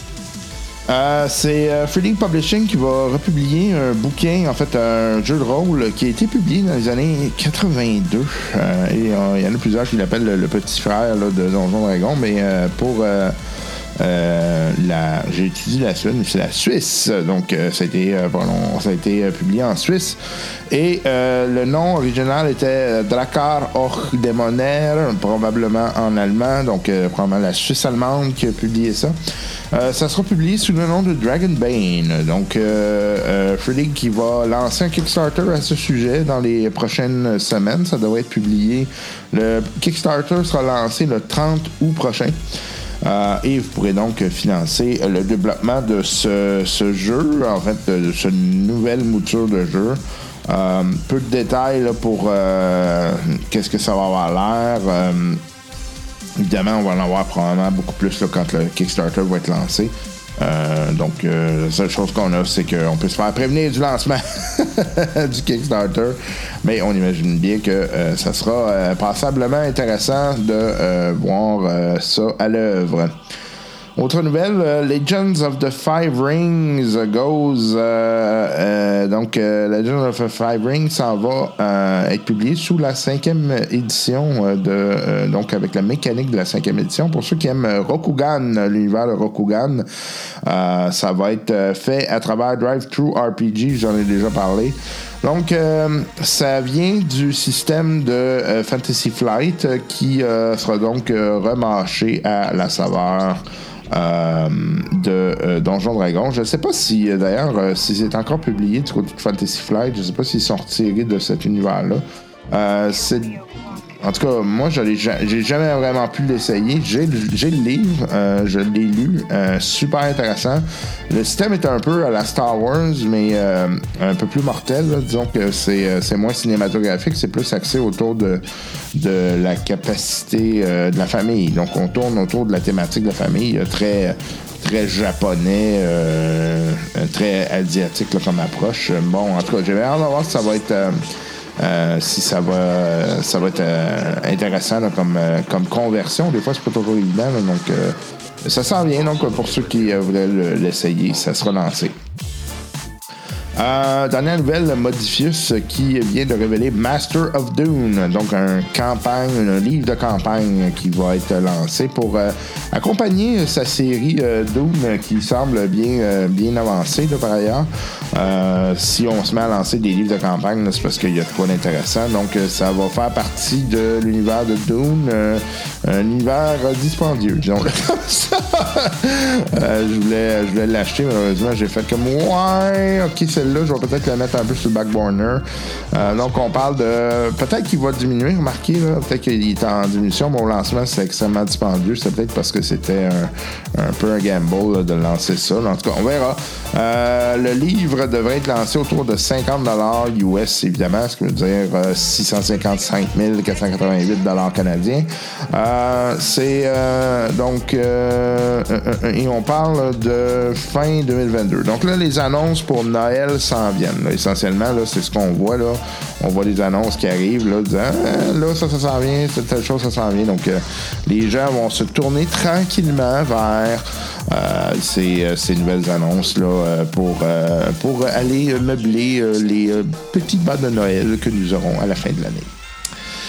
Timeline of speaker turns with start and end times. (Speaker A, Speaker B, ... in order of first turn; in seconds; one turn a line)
Speaker A: 0.9-13.4
Speaker A: 14.0-29.2
Speaker A: 29.7-42.4
Speaker A: 43.0-55.5
Speaker A: 56.4-73.2
Speaker A: 74.0-89.9
Speaker A: 90.4-113.4
Speaker A: 114.0-152.0
Speaker A: 153.6-232.5